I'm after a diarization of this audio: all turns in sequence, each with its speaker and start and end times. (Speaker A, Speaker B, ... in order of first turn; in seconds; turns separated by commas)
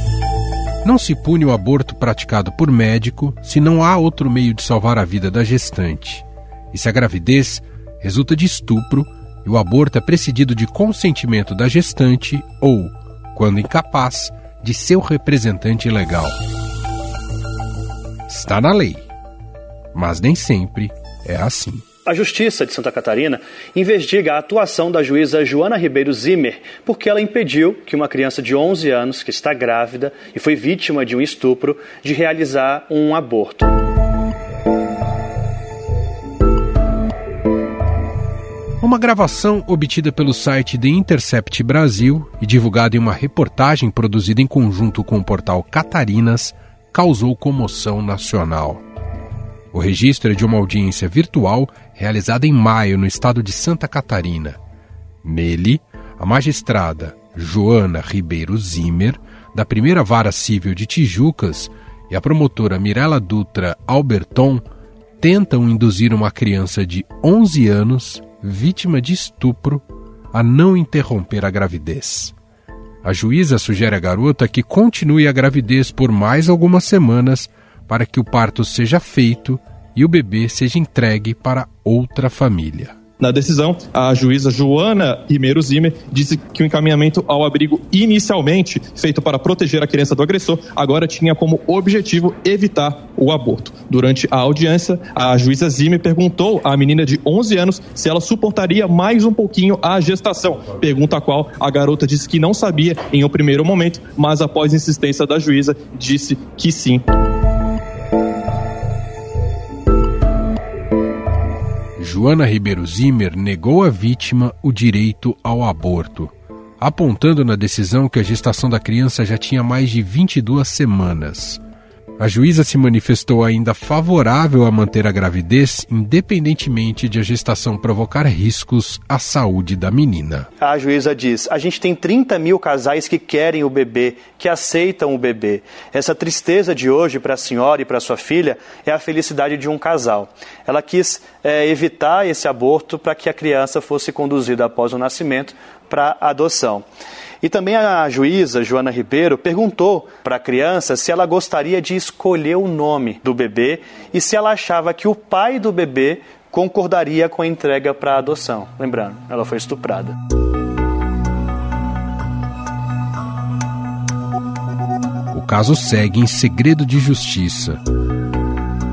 Speaker A: 0.8-16.4, Speaker A: 18.3-19.0, Speaker A: 19.9-21.8, Speaker B: 22.1-33.8, Speaker A: 38.8-48.8, Speaker A: 49.7-54.6, Speaker A: 55.2-64.6, Speaker A: 65.2-72.3, Speaker A: 73.0-83.0, Speaker C: 83.3-107.0, Speaker A: 112.0-121.6, Speaker A: 122.2-130.5, Speaker B: 130.6-146.8, Speaker B: 147.4-160.2, Speaker A: 165.3-167.8